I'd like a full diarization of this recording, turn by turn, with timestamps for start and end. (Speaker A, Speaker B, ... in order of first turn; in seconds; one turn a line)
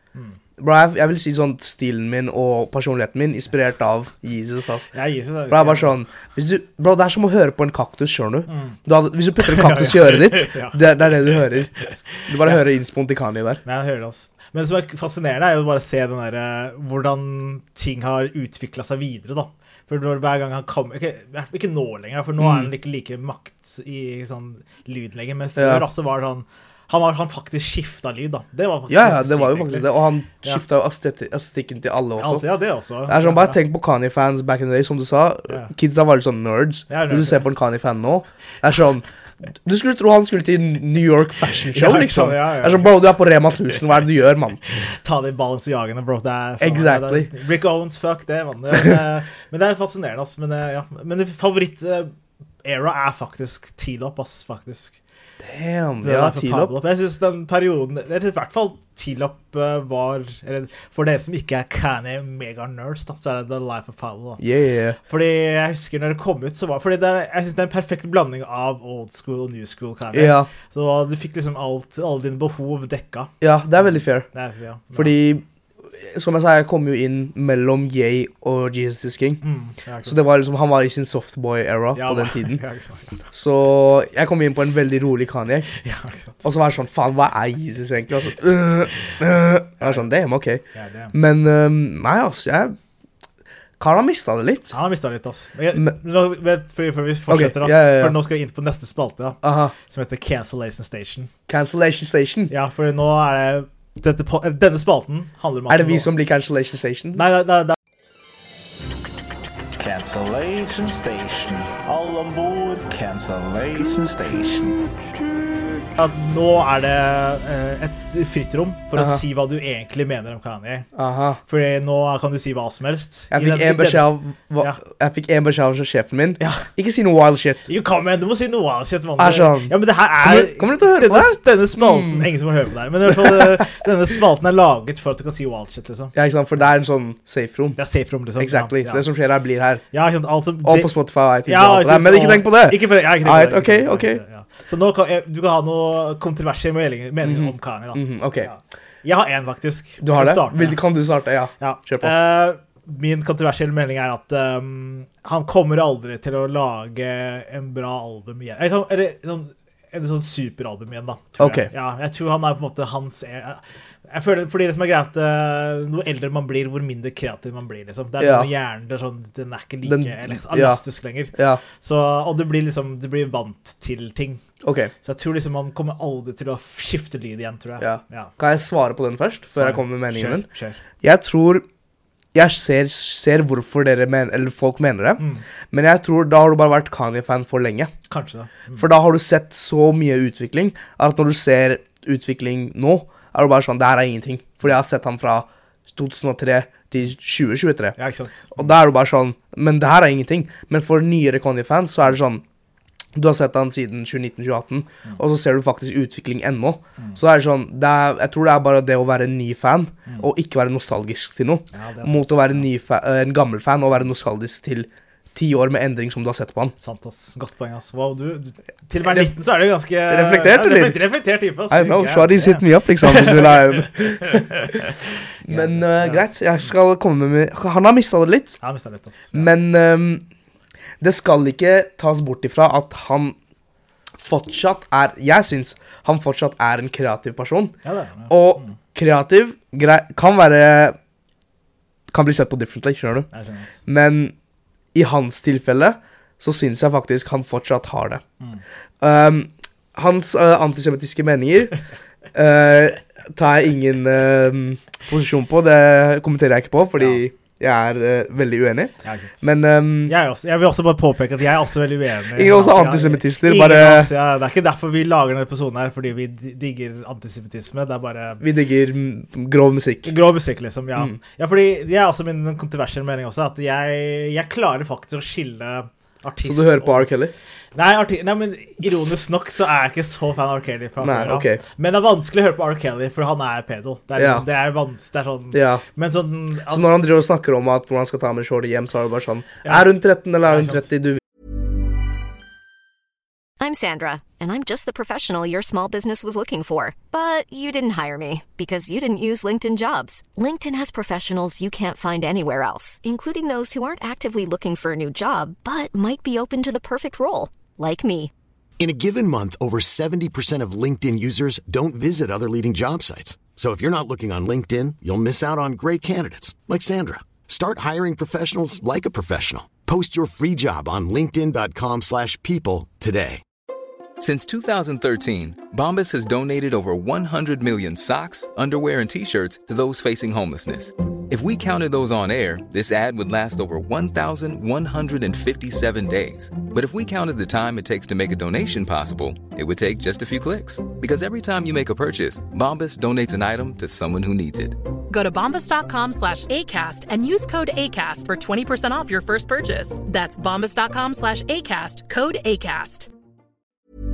Speaker A: 0.6-4.9
Speaker B: 4.9-5.9
Speaker A: 5.5-11.7
Speaker B: 8.5-8.8
Speaker B: 9.4-10.8
Speaker B: 11.8-12.6
Speaker A: 12.3-13.6
Speaker B: 13.7-30.6
Speaker A: 22.4-22.7
Speaker A: 25.6-25.9
Speaker A: 28.9-32.5
Speaker B: 32.2-33.6
Speaker A: 33.1-39.0
Speaker B: 36.9-37.5
Speaker A: 39.6-44.6
Speaker B: 41.7-42.9
Speaker B: 44.9-52.1
Speaker A: 46.6-47.3
Speaker B: 52.6-55.0
Speaker A: 55.4-56.7
Speaker B: 56.0-64.4
Speaker A: 64.4-65.0
Speaker B: 65.1-75.2
Speaker A: 70.1-70.5
Speaker A: 73.4-74.3
Speaker A: 74.9-75.4
Speaker A: 76.0-79.4
Speaker B: 79.4-80.3
Speaker A: 80.0-82.6
Speaker B: 82.0-83.2
Speaker A: 83.3-85.7
Speaker B: 85.8-86.4
Speaker A: 86.4-92.8
Speaker B: 89.8-90.1
Speaker B: 90.7-91.1
Speaker A: 93.8-94.8
Speaker B: 94.7-101.3
Speaker A: 97.3-98.2
Speaker A: 99.4-99.7
Speaker A: 101.5-102.5
Speaker B: 102.5-106.1
Speaker A: 105.7-107.3
Speaker B: 107.2-107.8
Speaker C: 110.0-114.7
Speaker B: 116.0-120.9
Speaker A: 119.0-119.2
Speaker A: 121.0-121.4
Speaker B: 121.5-124.8
Speaker A: 123.3-127.7
Speaker B: 126.4-126.7
Speaker B: 127.7-136.1
Speaker A: 129.2-132.3
Speaker A: 133.1-133.7
Speaker A: 136.2-137.8
Speaker B: 137.8-139.1
Speaker A: 138.4-139.8
Speaker B: 139.9-150.8
Speaker A: 140.6-144.2
Speaker A: 147.2-148.5
Speaker A: 150.0-152.2
Speaker B: 151.6-174.4
Speaker A: 161.4-161.7
Speaker A: 168.2-168.5
Speaker A: 169.8-170.8
Speaker A: 171.3-171.6
Speaker A: 174.6-174.9
Speaker B: 175.0-178.3
Speaker A: 177.8-180.5
Speaker B: 179.5-180.8
Speaker A: 181.0-181.7
Speaker A: 182.3-187.9
Speaker B: 185.2-185.4
Speaker B: 188.1-188.9
Speaker A: 188.7-198.0
Speaker B: 198.0-198.7
Speaker A: 198.5-202.4
Speaker A: 203.2-216.7
Speaker B: 211.7-212.6
Speaker B: 216.8-224.7
Speaker A: 219.0-219.3
Speaker A: 220.1-221.0
Speaker A: 221.7-224.9
Speaker B: 225.4-226.2
Speaker A: 225.4-228.6
Speaker B: 228.6-229.5
Speaker A: 229.3-230.3
Speaker A: 231.0-233.4
Speaker A: 234.2-237.8
Speaker B: 237.8-238.8
Speaker A: 238.3-241.0
Speaker A: 242.1-243.3
Speaker B: 243.3-243.8
Speaker A: 243.9-244.3
Speaker A: 244.9-248.2
Speaker A: 249.0-251.8
Speaker A: 252.3-260.1
Speaker B: 259.0-259.4
Speaker B: 260.1-268.4
Speaker A: 262.4-264.1
Speaker A: 268.4-270.1
Speaker B: 270.1-277.1
Speaker A: 276.4-277.3
Speaker B: 277.8-286.9
Speaker A: 281.0-281.6
Speaker A: 284.2-284.5
Speaker A: 285.5-285.8
Speaker A: 286.7-291.2
Speaker B: 290.4-290.9
Speaker D: 293.6-308.3
Speaker E: 308.8-323.4
Speaker F: 324.2-344.8
Speaker G: 345.1-353.1